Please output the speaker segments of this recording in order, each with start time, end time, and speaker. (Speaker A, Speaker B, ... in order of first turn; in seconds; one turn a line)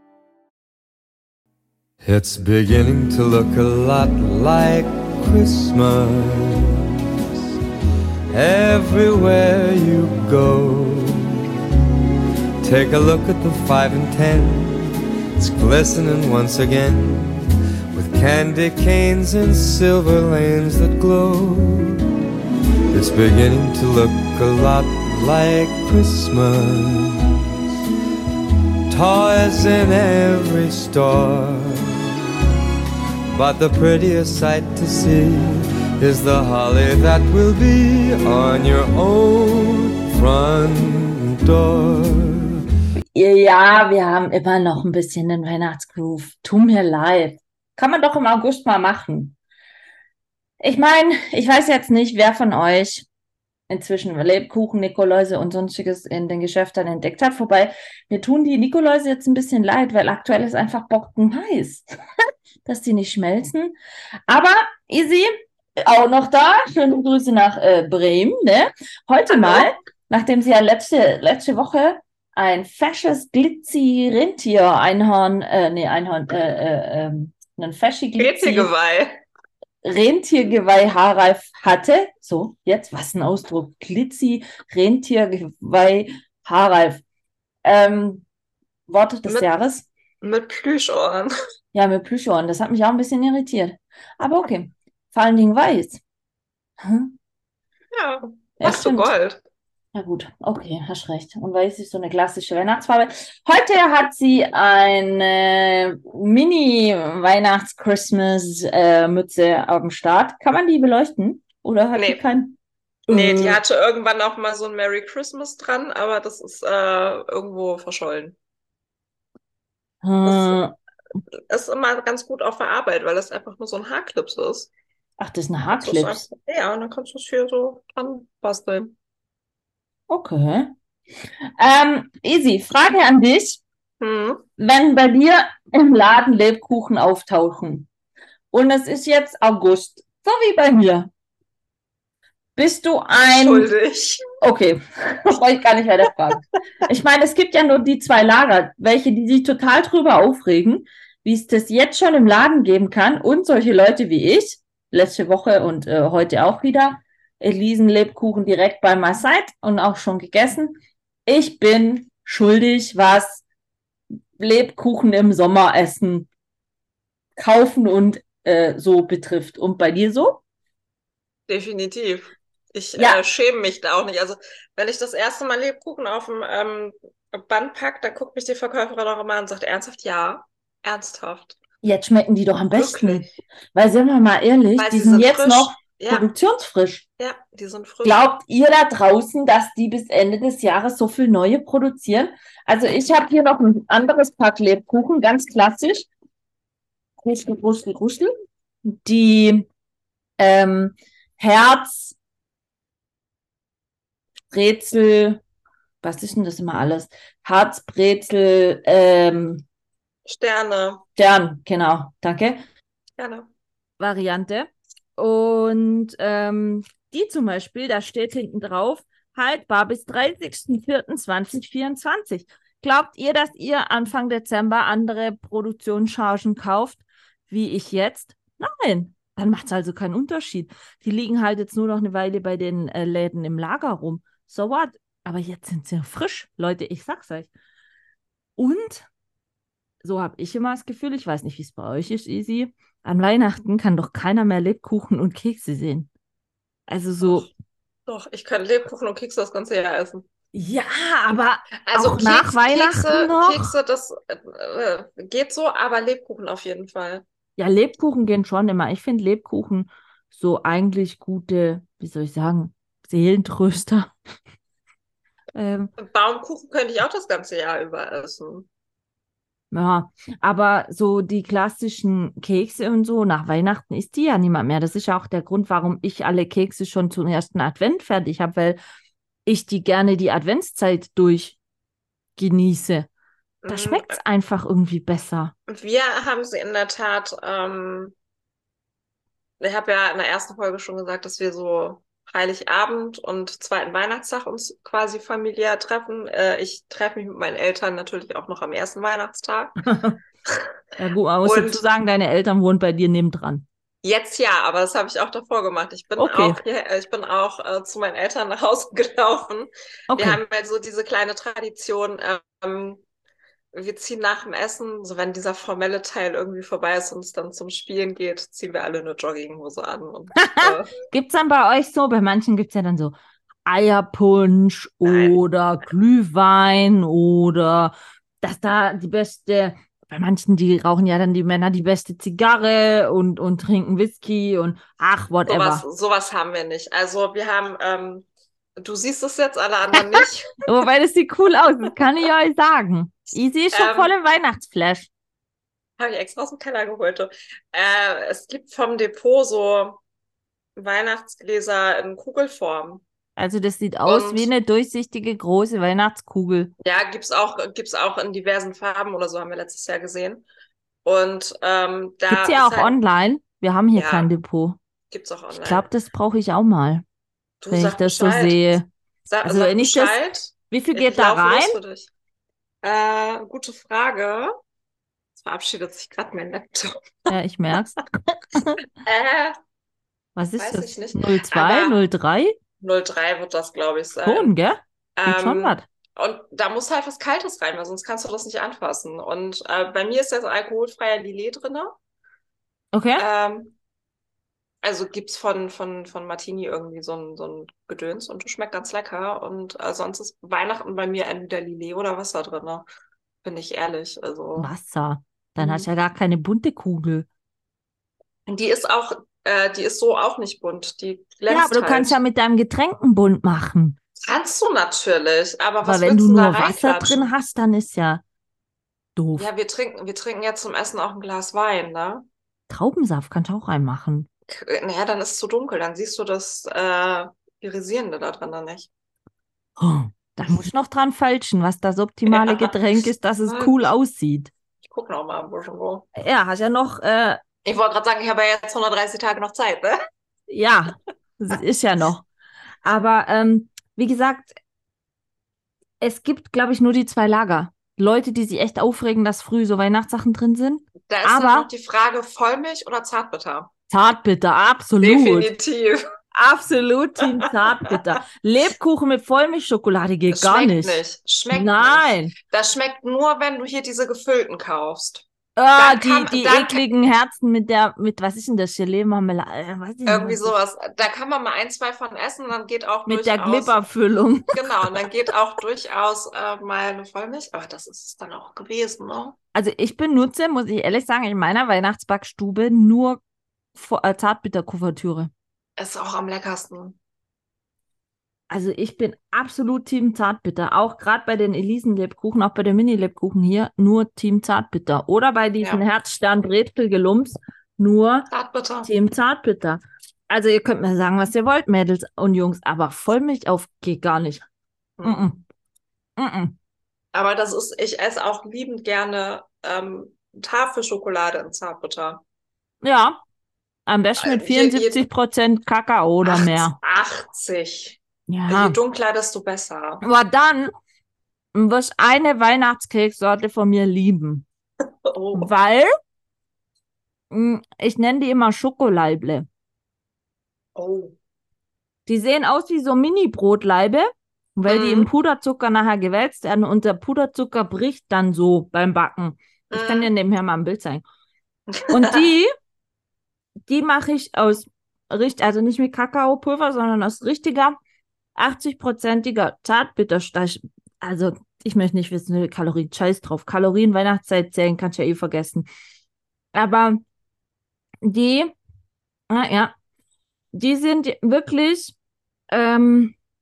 Speaker A: 2.0-7.4
Speaker A: 8.3-11.5
Speaker A: 12.6-22.1
Speaker A: 22.9-27.3
Speaker A: 28.9-32.2
Speaker A: 33.3-42.5
Speaker B: 43.1-49.3
Speaker B: 50.6-53.0
Speaker B: 53.7-61.9
Speaker B: 62.6-63.7
Speaker B: 64.3-78.7
Speaker C: 69.3-69.7
Speaker C: 78.2-79.2
Speaker B: 79.8-87.0
Speaker B: 87.6-88.2
Speaker B: 88.9-89.9
Speaker C: 90.2-91.3
Speaker B: 91.7-96.0
Speaker B: 96.8-97.1
Speaker C: 97.9-99.4
Speaker B: 98.6-99.1
Speaker B: 99.9-112.6
Speaker C: 111.9-112.2
Speaker B: 113.1-113.6
Speaker C: 113.1-118.3
Speaker B: 120.0-120.8
Speaker C: 120.2-120.6
Speaker C: 121.5-124.7
Speaker B: 125.2-126.2
Speaker C: 125.7-128.9
Speaker B: 130.1-130.7
Speaker B: 131.6-133.6
Speaker C: 134.0-134.4
Speaker B: 134.6-137.9
Speaker B: 138.5-141.1
Speaker B: 142.6-143.7
Speaker C: 143.2-144.2
Speaker B: 144.4-163.4
Speaker B: 164.4-166.3
Speaker B: 167.4-170.4
Speaker C: 171.5-181.6
Speaker B: 172.9-173.2
Speaker B: 181.8-187.0
Speaker C: 182.7-183.3
Speaker C: 184.8-186.3
Speaker C: 187.2-188.3
Speaker B: 188.0-196.1
Speaker B: 197.2-198.3
Speaker B: 198.8-199.7
Speaker B: 200.4-202.1
Speaker B: 204.5-205.4
Speaker B: 206.0-209.6
Speaker C: 210.2-211.0
Speaker B: 211.2-212.6
Speaker C: 213.2-213.5
Speaker B: 214.0-237.5
Speaker B: 238.6-239.1
Speaker B: 240.0-246.1
Speaker B: 246.9-247.5
Speaker C: 247.2-247.5
Speaker C: 248.1-250.2
Speaker B: 250.5-253.7
Speaker C: 251.8-257.2
Speaker B: 257.6-264.1
Speaker B: 265.5-265.9
Speaker C: 266.0-268.7
Speaker B: 269.7-278.8
Speaker B: 279.4-281.6
Speaker B: 282.4-283.1
Speaker C: 283.6-284.2
Speaker B: 283.7-285.5
Speaker C: 285.7-288.1
Speaker C: 289.6-299.8
Speaker B: 299.8-300.2
Speaker B: 301.0-303.6
Speaker C: 301.4-301.8
Speaker C: 304.0-313.0
Speaker B: 306.2-306.6
Speaker B: 310.1-310.4
Speaker C: 313.7-320.9
Speaker B: 320.4-335.8
Speaker C: 325.0-325.4
Speaker C: 335.5-338.2
Speaker C: 338.8-340.6
Speaker B: 340.6-345.1
Speaker C: 343.7-344.1
Speaker C: 346.0-350.0
Speaker C: 350.8-353.0
Speaker B: 353.4-356.7
Speaker C: 354.0-354.5
Speaker C: 356.8-360.4
Speaker C: 361.0-363.0
Speaker B: 362.3-364.8
Speaker C: 363.9-364.3
Speaker C: 365.1-365.9
Speaker B: 365.6-367.0
Speaker C: 367.6-372.1
Speaker B: 367.7-368.9
Speaker B: 369.4-370.2
Speaker B: 370.7-371.8
Speaker C: 372.8-374.6
Speaker C: 375.4-377.3
Speaker B: 377.3-378.8
Speaker C: 379.0-379.6
Speaker B: 380.4-382.5
Speaker C: 380.6-382.0
Speaker C: 382.8-384.5
Speaker B: 384.2-385.9
Speaker C: 385.2-391.9
Speaker B: 392.9-393.2
Speaker C: 393.2-393.7
Speaker C: 394.8-402.9
Speaker C: 403.4-404.7
Speaker B: 404.6-407.3
Speaker C: 405.6-405.9
Speaker C: 408.5-412.1
Speaker B: 411.5-414.0
Speaker C: 414.2-417.3
Speaker B: 415.8-418.2
Speaker B: 419.1-419.5
Speaker C: 419.4-422.2
Speaker B: 422.7-424.3
Speaker C: 424.5-428.9
Speaker B: 429.8-434.5
Speaker C: 432.3-432.7
Speaker C: 433.5-433.9
Speaker C: 434.9-436.1
Speaker B: 436.1-437.4
Speaker C: 437.6-440.0
Speaker B: 440.5-442.2
Speaker B: 442.8-444.5
Speaker B: 446.0-451.7
Speaker C: 451.1-453.7
Speaker B: 453.9-455.5
Speaker C: 455.0-456.0
Speaker B: 456.3-462.3
Speaker C: 457.2-458.0
Speaker C: 460.3-465.2
Speaker B: 465.6-470.5
Speaker C: 465.8-466.8
Speaker C: 470.1-473.8
Speaker B: 473.1-474.9
Speaker C: 474.5-479.4
Speaker B: 479.5-483.2
Speaker B: 483.7-485.3
Speaker C: 485.8-487.0
Speaker B: 488.5-498.3
Speaker C: 498.3-498.9
Speaker B: 498.8-504.4
Speaker C: 505.0-505.2
Speaker B: 505.0-505.4
Speaker B: 506.2-506.6
Speaker C: 507.1-512.2
Speaker B: 512.8-513.2
Speaker B: 513.9-516.8
Speaker C: 514.2-515.0
Speaker C: 516.2-520.0
Speaker B: 518.3-518.8
Speaker B: 520.0-520.7
Speaker B: 521.5-524.5
Speaker C: 525.0-525.5
Speaker B: 525.3-525.9
Speaker B: 527.3-529.5
Speaker C: 530.7-531.1
Speaker B: 532.1-541.0
Speaker C: 534.7-535.1
Speaker C: 539.7-540.1
Speaker C: 541.7-542.3
Speaker B: 541.9-542.5
Speaker B: 543.7-547.8
Speaker B: 548.4-555.6
Speaker B: 556.5-557.0
Speaker B: 558.0-558.5
Speaker B: 559.3-559.7
Speaker B: 560.5-561.9
Speaker B: 562.5-563.1